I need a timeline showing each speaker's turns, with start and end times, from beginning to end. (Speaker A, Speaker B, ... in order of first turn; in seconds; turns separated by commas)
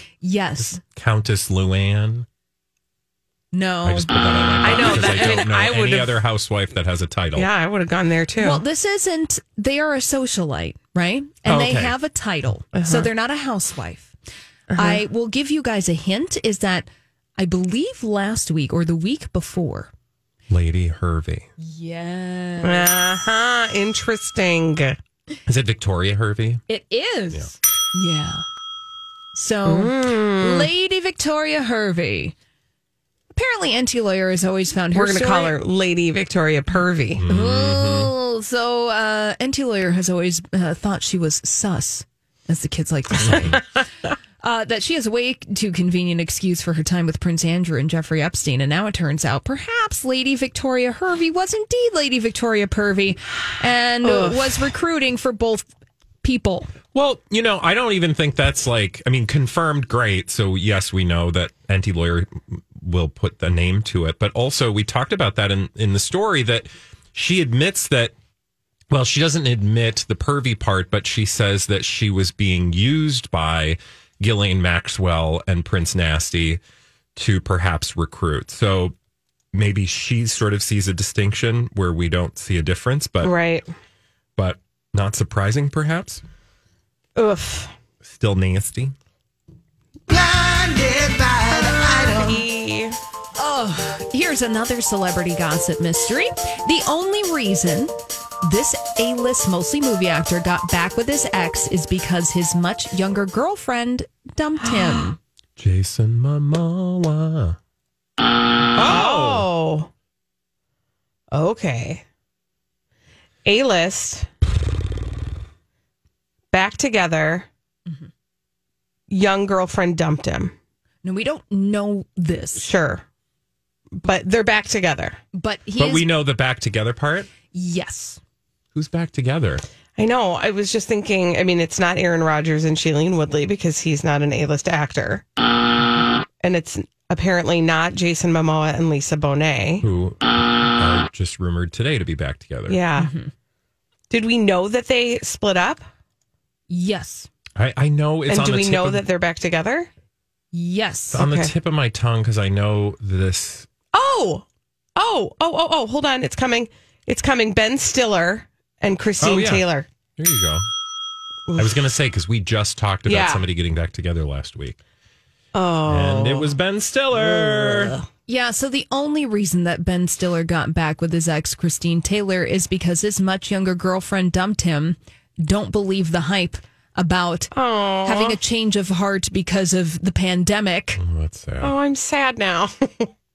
Speaker A: 0.2-0.8, Speaker B: 0.6-2.3, Speaker A: 3.5-4.1, Speaker B: 3.8-7.5, Speaker C: 4.6-6.2, Speaker C: 7.4-8.6, Speaker A: 8.4-14.1, Speaker B: 11.5-11.9, Speaker C: 12.7-13.1, Speaker C: 14.7-15.0, Speaker A: 14.8-19.9, Speaker B: 20.5-21.5, Speaker A: 21.6-22.9, Speaker C: 22.6-25.0, Speaker B: 25.5-26.6, Speaker A: 26.7-28.4, Speaker A: 29.3-32.3, Speaker C: 29.6-30.7, Speaker A: 33.4-35.5, Speaker C: 34.9-37.2, Speaker B: 37.2-38.1, Speaker A: 37.3-43.6, Speaker B: 43.2-43.6, Speaker A: 44.4-55.6, Speaker C: 54.0-54.7, Speaker A: 56.2-56.7, Speaker B: 56.9-68.1, Speaker B: 68.9-76.6, Speaker B: 77.1-79.0, Speaker B: 79.5-83.3, Speaker C: 83.2-83.7, Speaker B: 84.4-86.2, Speaker C: 87.2-87.7, Speaker B: 88.0-89.0, Speaker C: 90.6-93.0, Speaker A: 93.4-97.9, Speaker A: 98.4-105.2, Speaker C: 104.6-105.1, Speaker B: 105.6-107.6, Speaker B: 108.8-109.5, Speaker C: 108.8-109.9, Speaker C: 111.3-112.0, Speaker C: 113.5-114.3, Speaker C: 116.5-117.5, Speaker C: 119.1-120.5, Speaker A: 121.0-122.7, Speaker C: 122.6-123.0, Speaker C: 124.0-125.2, Speaker A: 125.3-126.1, Speaker B: 125.8-127.3, Speaker A: 127.5-128.2, Speaker B: 128.8-129.6, Speaker C: 130.0-135.2, Speaker C: 136.4-139.9, Speaker B: 139.8-142.8, Speaker C: 142.7-143.1, Speaker A: 143.0-143.3, Speaker C: 144.1-145.8, Speaker A: 146.7-147.3, Speaker B: 147.6-149.0, Speaker C: 148.3-149.9, Speaker A: 150.5-151.2, Speaker B: 151.1-153.7, Speaker C: 151.2-151.5, Speaker C: 153.9-154.4, Speaker C: 155.0-159.9, Speaker B: 159.2-159.6, Speaker B: 160.2-160.7, Speaker C: 161.5-161.7, Speaker B: 161.6-164.8, Speaker C: 163.1-163.4, Speaker C: 165.5-166.5, Speaker B: 165.9-168.0, Speaker C: 167.1-168.1, Speaker A: 168.3-177.5, Speaker C: 177.5-178.4, Speaker A: 178.1-181.0, Speaker B: 181.0-181.8, Speaker C: 181.6-183.1